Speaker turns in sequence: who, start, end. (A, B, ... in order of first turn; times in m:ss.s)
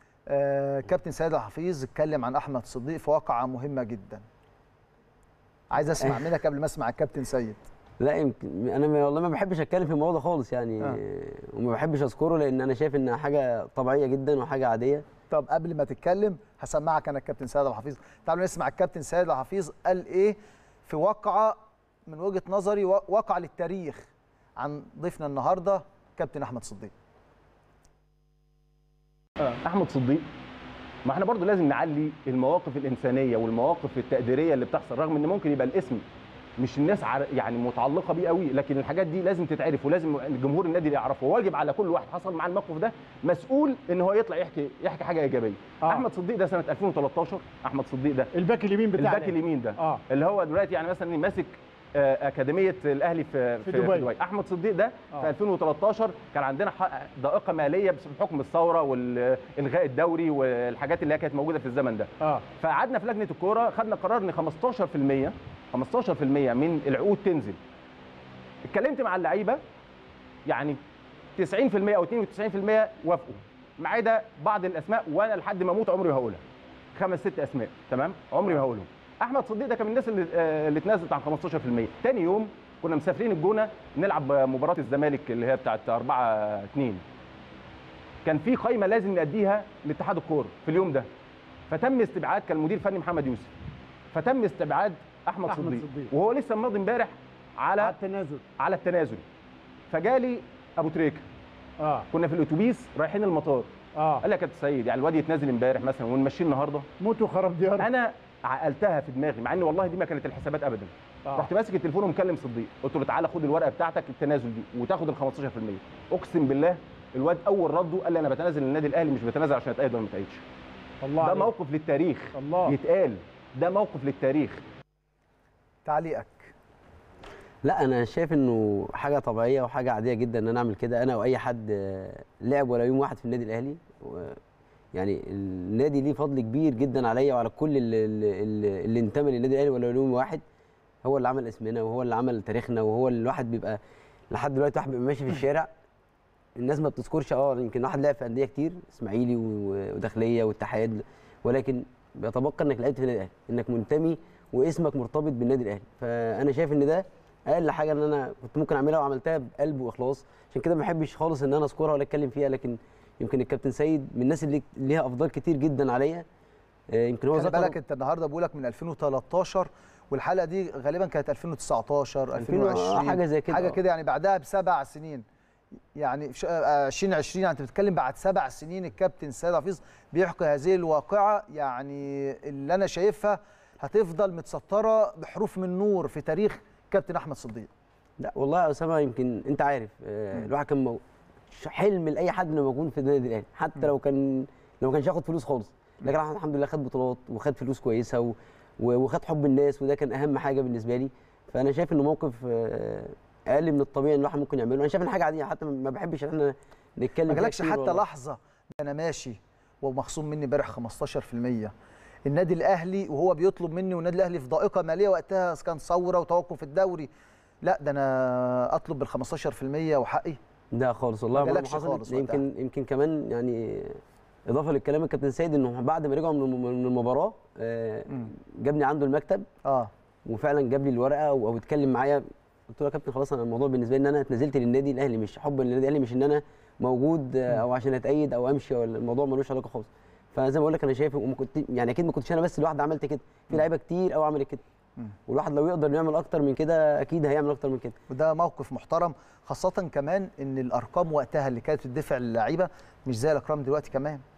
0:00.3-0:04.2 A
0:05.7-0:07.6 A
0:06.0-0:06.3 B
0:08.0-0:15.0 B
0:15.3-0:21.6 A
0:22.1-0:26.9 A
0:29.5-0:30.3 C
0:31.0-0:36.0 C
0:36.6-0:48.3 C
0:48.3-0:50.0 D
0:48.9-1:07.6 C
0:53.6-0:54.1 D
1:08.6-1:09.6 C
1:10.4-1:10.8 C
1:11.4-1:16.4 C
1:16.9-1:27.0 C
1:28.2-1:31.1 C
1:31.7-1:33.5 C
1:34.1-1:37.9 C
1:35.5-1:36.1 D
1:37.8-1:38.4 D
1:38.6-1:39.2 C
1:39.9-1:41.2 C
1:41.8-1:42.0 D
1:42.1-1:46.9 C
1:43.9-1:44.2 D
1:47.0-1:47.9 D
1:47.8-2:00.4 C
2:01.0-2:01.5 D
2:01.2-2:04.6 C
2:02.3-2:02.8 D
2:05.8-2:06.5 A
2:07.6-2:14.4 B
2:14.9-2:20.4 B
2:21.0-2:25.7 B
2:26.6-2:46.2 B
2:46.9-2:47.8 B
2:47.3-2:55.2 A
2:52.4-2:53.8 B
2:56.0-3:07.7 A
3:08.2-3:28.0 B
3:27.3-3:31.7 A
3:32.2-3:37.1 A
3:37.6-3:40.4 A
3:40.7-3:49.4 B
3:41.4-3:42.4 A
3:49.6-3:49.9 A
3:50.2-4:04.6 B
4:05.3-4:08.0 B
4:08.1-4:14.2 A